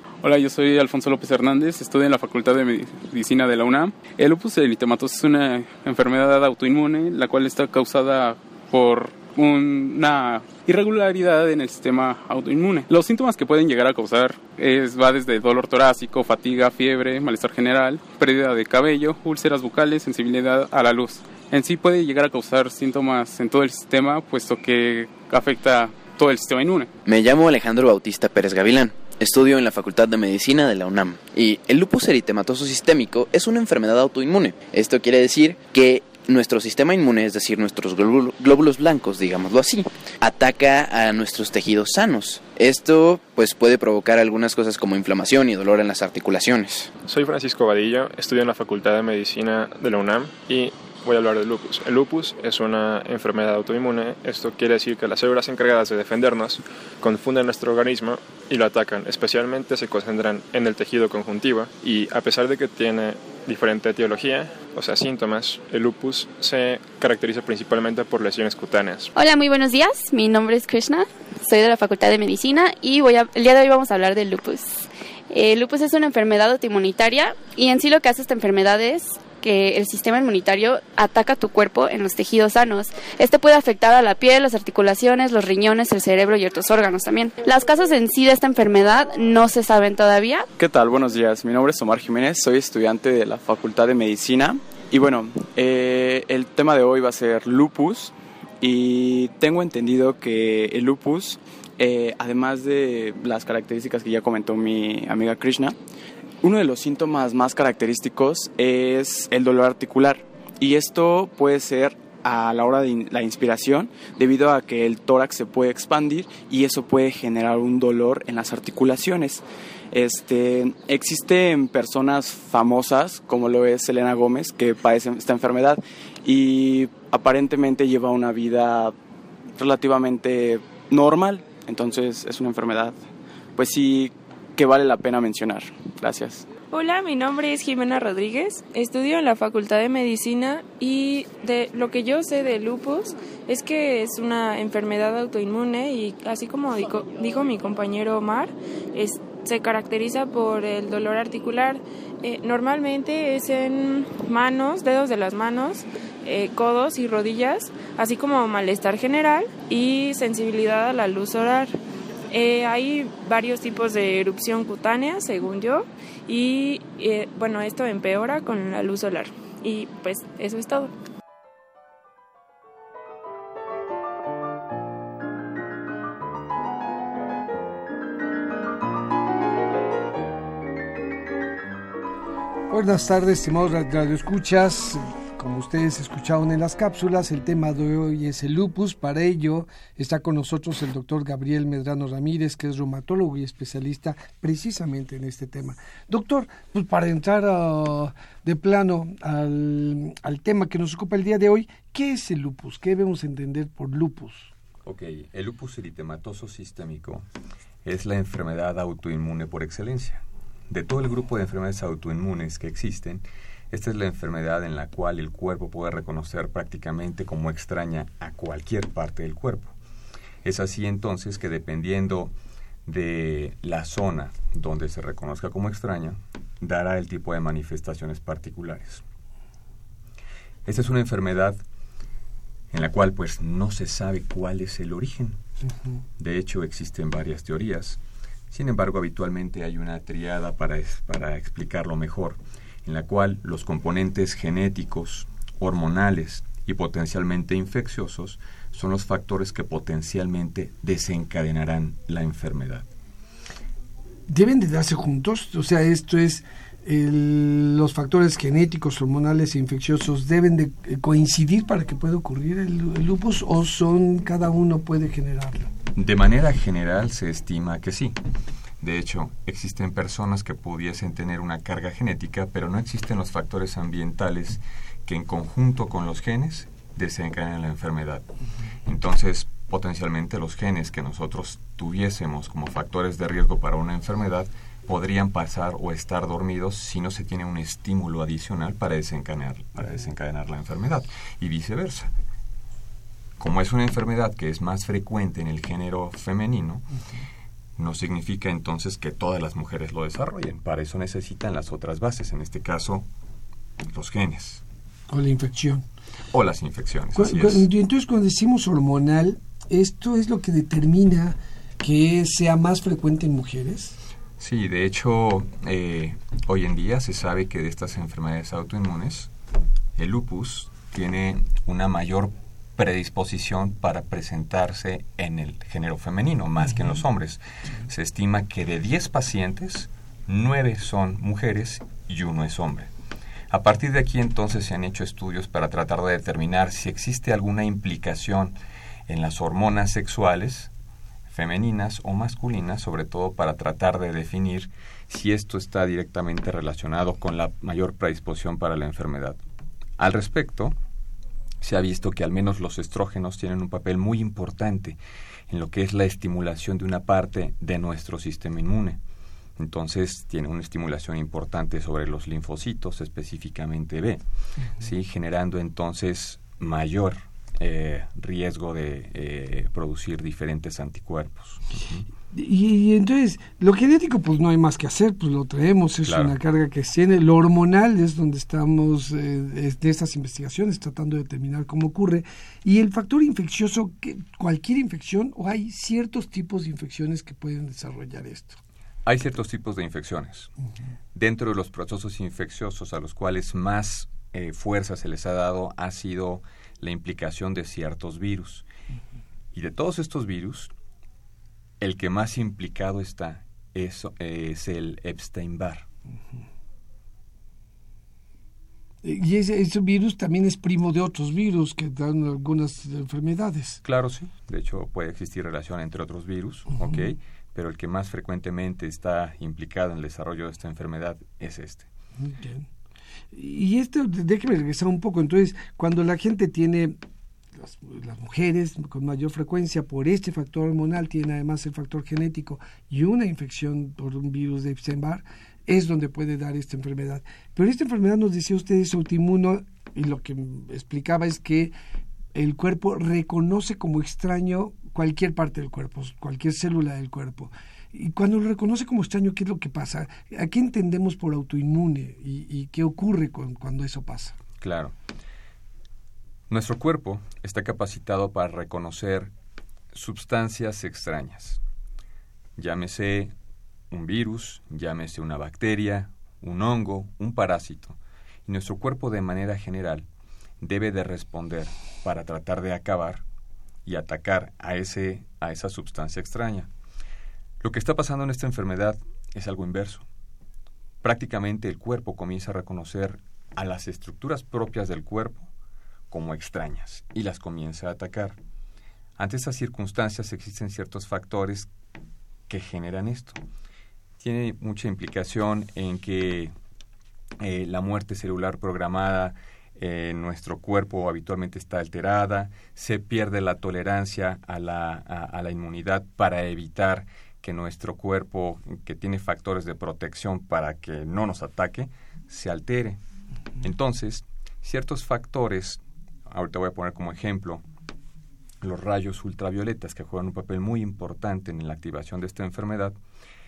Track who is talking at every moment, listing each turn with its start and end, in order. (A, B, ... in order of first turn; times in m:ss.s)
0:00.2-0:26.9 A
0:27.1-0:46.9 B
0:47.1-1:09.1 C
1:09.2-1:30.5 D
1:30.6-1:45.8 E
1:46.4-2:08.9 E
2:09.6-2:13.0 E
2:13.6-2:16.5 E
2:16.6-2:41.8 F
2:42.3-2:50.9 F
3:02.7-3:24.5 G
3:24.8-3:27.2 H
3:27.8-3:39.8 H
3:40.4-3:42.3 H
3:42.8-3:49.0 H
3:50.6-3:51.6 H
3:52.7-3:55.4 H
3:56.2-4:12.9 H
4:14.3-4:25.7 G
4:25.9-4:28.2 H
4:28.8-4:38.3 H
4:38.8-4:52.1 H
4:53.4-4:56.9 H
4:57.8-5:03.1 H
5:03.9-5:04.6 H
5:05.1-5:05.8 G
5:06.3-5:07.7 H
5:07.1-5:14.0 G
5:14.4-5:19.3 H
5:20.0-5:32.9 H
5:33.5-5:38.6 H
5:39.1-5:40.7 H
5:41.3-5:49.4 H
5:50.0-5:50.8 H
5:51.6-5:55.0 H
5:55.5-5:59.0 H
5:59.6-6:04.2 H
6:04.8-6:12.1 H
6:12.3-6:28.6 G
6:16.0-6:16.4 H
6:29.0-6:30.5 H
6:31.1-6:38.7 H
6:39.5-6:40.7 H
6:41.8-6:45.9 H
6:49.0-6:53.8 G
6:53.8-7:01.9 H
7:02.2-7:02.7 G
7:03.3-7:07.0 G
7:07.6-7:21.7 G
7:22.3-7:34.4 G
7:34.6-7:34.9 H
7:36.5-7:39.3 H
7:39.9-7:41.6 H
7:42.6-7:43.3 H
7:43.9-7:50.1 H
7:50.6-7:53.2 H
7:53.8-7:56.7 H
7:57.6-8:00.1 H
8:01.0-8:05.5 H
8:06.1-8:08.4 H
8:09.2-8:11.7 H
8:12.5-8:13.4 H
8:14.2-8:16.5 H
8:17.4-8:33.0 H
8:33.6-8:37.6 H
8:38.6-8:43.0 H